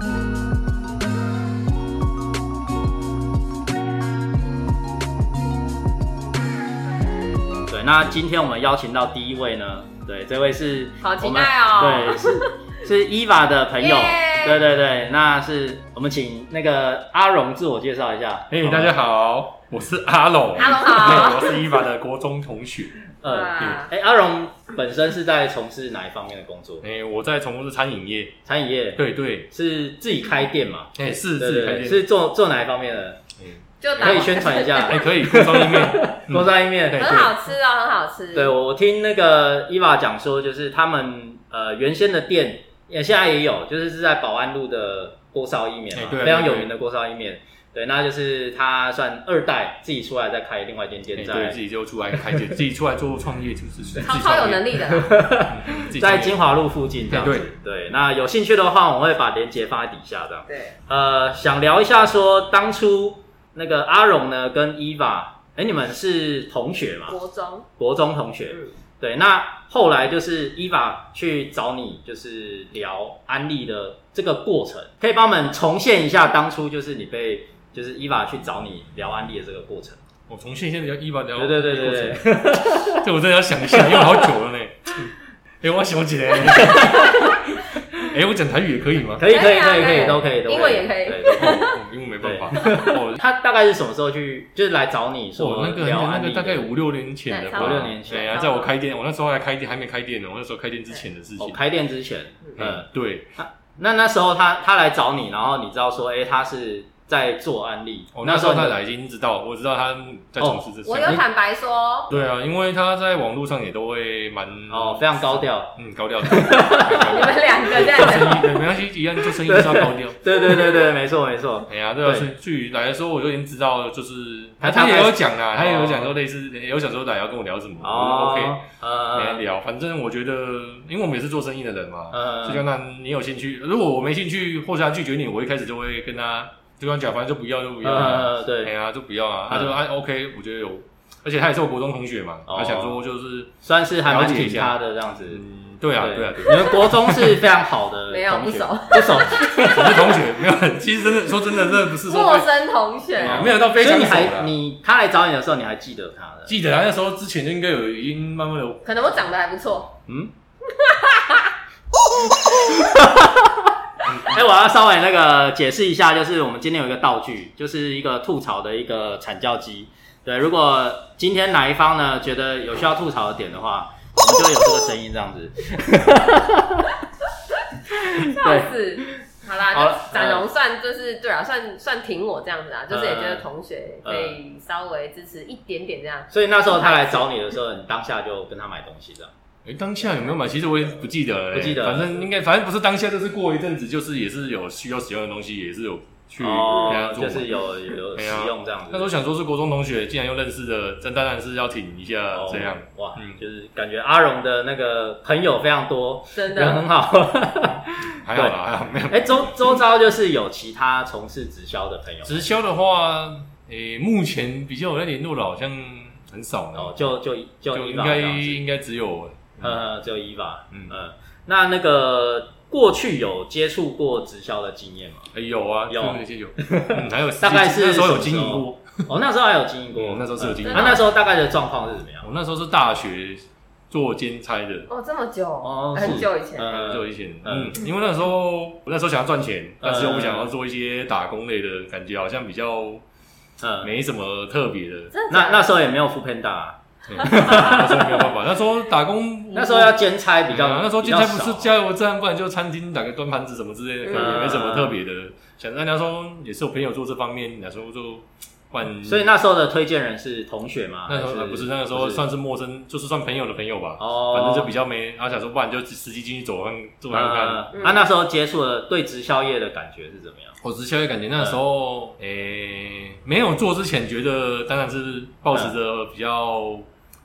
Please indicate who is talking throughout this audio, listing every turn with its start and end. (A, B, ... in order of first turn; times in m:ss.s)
0:07.7-0:18.9 A
0:11.0-0:12.4 B
0:13.8-0:14.6 B
0:18.5-0:23.0 C
0:20.6-0:21.6 B
0:23.2-0:26.8 A
0:23.2-0:23.9 B
0:26.8-0:28.4 C
0:28.4-0:33.2 A
0:29.0-0:29.5 C
0:30.9-0:32.0 C
0:33.4-0:37.3 C
0:33.8-0:35.1 B
0:34.0-0:37.1 A
0:37.0-0:38.5 B
0:38.3-0:51.6 A
0:45.9-0:46.7 C
0:51.1-0:56.4 C
0:54.0-0:55.2 B
0:55.0-1:07.2 A
0:57.1-0:57.5 C
1:00.5-1:00.8 B
1:07.1-1:07.6 B
1:07.8-1:20.0 A
1:20.3-1:27.2 C
1:21.4-1:23.0 A
1:23.7-1:24.3 A
1:26.5-1:27.3 A
1:28.0-1:29.2 C
1:29.2-1:31.6 A
1:29.3-1:31.8 B
1:31.4-1:33.2 C
1:32.2-1:36.7 A
1:35.4-1:41.6 C
1:37.3-1:38.7 B
1:37.5-1:38.4 A
1:41.4-1:48.8 A
1:42.6-1:43.3 C
1:48.1-1:51.2 C
1:50.4-1:51.2 A
1:50.8-1:52.1 B
1:52.1-2:00.2 C
1:54.7-1:57.0 A
1:56.7-1:58.4 B
1:59.4-2:02.3 A
2:01.7-2:23.5 C
2:04.6-2:06.2 A
2:07.8-2:09.4 A
2:12.1-2:12.6 A
2:17.8-2:18.7 A
2:19.5-2:19.7 A
2:22.5-2:23.0 A
2:23.6-2:25.4 A
2:24.0-2:24.7 C
2:25.3-2:27.4 C
2:26.0-2:30.3 A
2:28.1-2:29.2 B
2:29.2-2:32.5 C
2:31.9-2:33.4 B
2:33.2-2:34.5 C
2:33.2-2:36.5 A
2:36.4-2:38.9 C
2:38.8-2:39.9 B
2:40.1-2:40.3 A
2:40.8-2:41.5 B
2:42.4-2:43.5 A
2:44.2-2:56.9 A
2:57.9-2:59.2 A
2:58.1-3:07.2 B
2:59.7-3:00.5 A
3:02.9-3:03.5 A
3:04.0-3:04.4 A
3:06.3-3:09.3 A
3:09.6-3:17.5 C
3:11.5-3:12.2 A
3:16.4-3:19.1 A
3:16.7-3:17.0 B
3:18.1-3:23.4 C
3:22.3-3:32.4 A
3:26.3-3:26.8 B
3:28.2-3:29.5 C
3:32.2-3:37.0 C
3:36.7-3:38.6 A
3:37.7-3:39.8 C
3:39.6-3:45.3 A
3:45.3-3:49.1 C
3:45.9-3:52.3 A
3:50.0-3:51.0 C
3:50.6-3:51.0 B
3:52.2-3:54.9 C
3:54.9-3:56.8 B
3:55.6-3:57.8 A
3:56.7-4:03.0 C
3:59.8-4:00.5 A
4:03.6-4:03.9 A
4:03.8-4:05.1 C
4:05.1-4:05.7 B
4:05.3-4:08.3 A
4:07.1-4:10.0 C
4:09.5-4:11.8 A
4:10.5-4:19.2 C
4:14.1-4:14.4 B
4:14.1-4:15.0 A
4:19.0-4:22.2 A
4:21.1-4:27.7 C
4:24.0-4:24.7 A
4:27.1-4:30.6 A
4:27.7-4:28.0 B
4:30.6-4:36.9 C